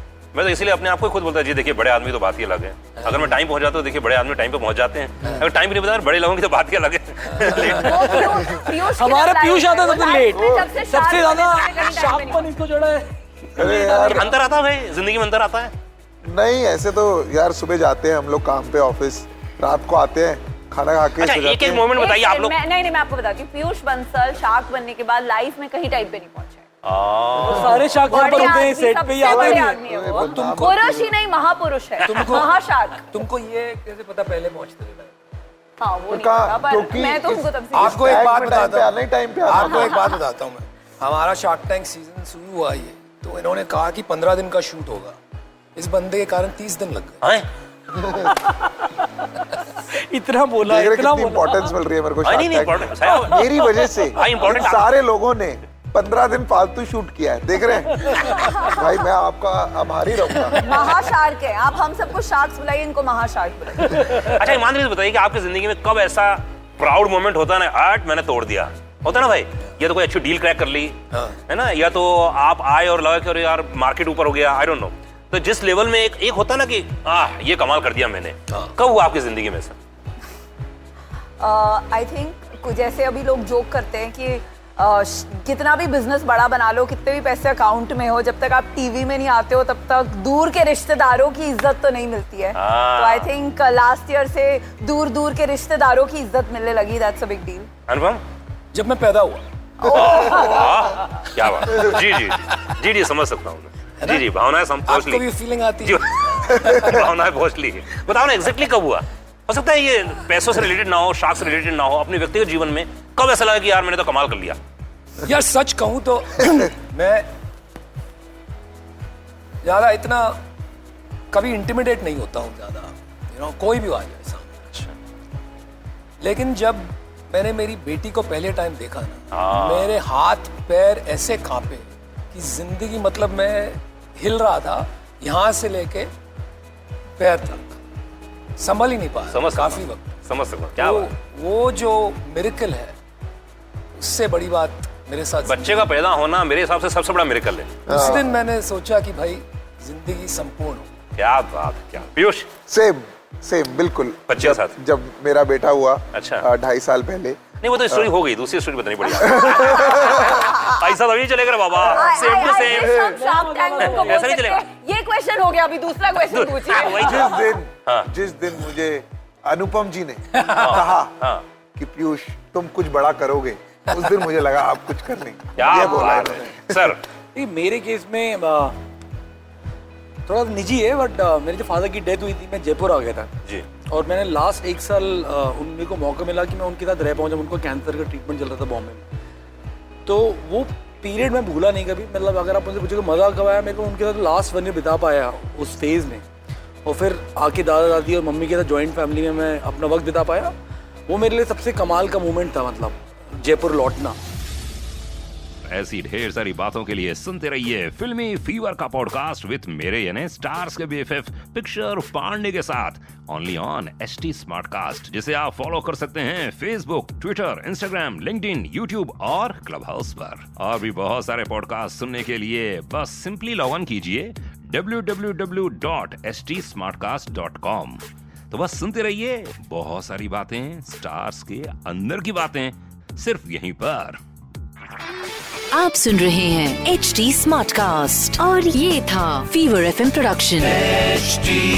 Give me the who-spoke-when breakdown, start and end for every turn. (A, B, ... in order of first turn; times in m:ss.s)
0:00.3-0:08.5 A
0:07.3-0:07.8 B
0:07.7-0:14.4 C
0:07.7-0:12.5 D
0:10.4-0:10.6 E
0:13.6-0:14.3 E
0:14.1-0:15.7 A
0:16.2-0:21.8 E
0:21.2-0:22.6 A
0:21.9-0:26.6 D
0:26.8-0:27.9 A
0:27.4-0:29.8 C
0:28.0-0:33.1 D
0:29.2-0:31.1 E
0:30.3-0:30.8 B
0:32.1-0:32.5 B
0:33.0-0:35.1 B
0:35.8-0:38.0 D
0:36.1-0:40.1 E
0:37.7-0:38.9 B
0:39.4-0:45.2 B
0:39.7-0:40.1 D
0:45.7-0:47.2 B
0:49.9-0:51.7 C
0:50.6-1:00.7 E
0:52.2-0:53.4 A
0:53.1-0:54.5 C
0:54.1-0:54.9 A
0:58.2-0:58.7 D
1:00.6-1:04.2 D
1:04.2-1:11.0 A
1:11.5-1:19.8 A
1:21.4-1:37.7 D
1:32.5-1:33.3 A
1:37.9-1:38.2 A
1:38.7-1:39.4 B
1:39.8-1:40.7 D
1:39.8-1:45.2 A
1:41.7-1:42.0 B
1:44.8-1:47.0 B
1:45.8-1:54.6 A
1:55.2-1:57.2 B
1:59.6-2:00.4 B
2:01.3-2:04.6 B
2:06.2-2:16.1 B
2:09.3-2:09.9 A
2:17.2-2:17.8 B
2:18.6-2:20.1 B
2:19.3-2:21.1 A
2:20.8-2:22.9 B
2:24.0-2:25.9 B
2:25.4-2:27.8 A
2:27.9-2:28.3 E
2:27.9-2:30.9 B
2:31.2-2:32.5 A
2:32.7-2:38.1 E
2:34.3-2:34.8 A
2:36.1-2:36.4 A
2:37.6-2:43.1 A
2:39.2-2:40.2 E
2:40.3-2:40.7 D
2:41.8-2:47.5 D
2:42.2-2:44.3 C
2:43.8-2:44.6 A
2:46.3-2:47.3 A
2:47.0-2:51.1 E
2:50.5-2:51.4 A
2:51.8-2:56.9 E
2:55.6-2:57.0 A
2:57.3-2:58.8 C
3:00.3-3:03.3 C
3:03.9-3:09.0 C
3:10.0-3:16.2 C
3:16.8-3:20.5 C
3:21.1-3:24.2 C
3:25.6-3:54.2 F
3:55.7-4:01.1 G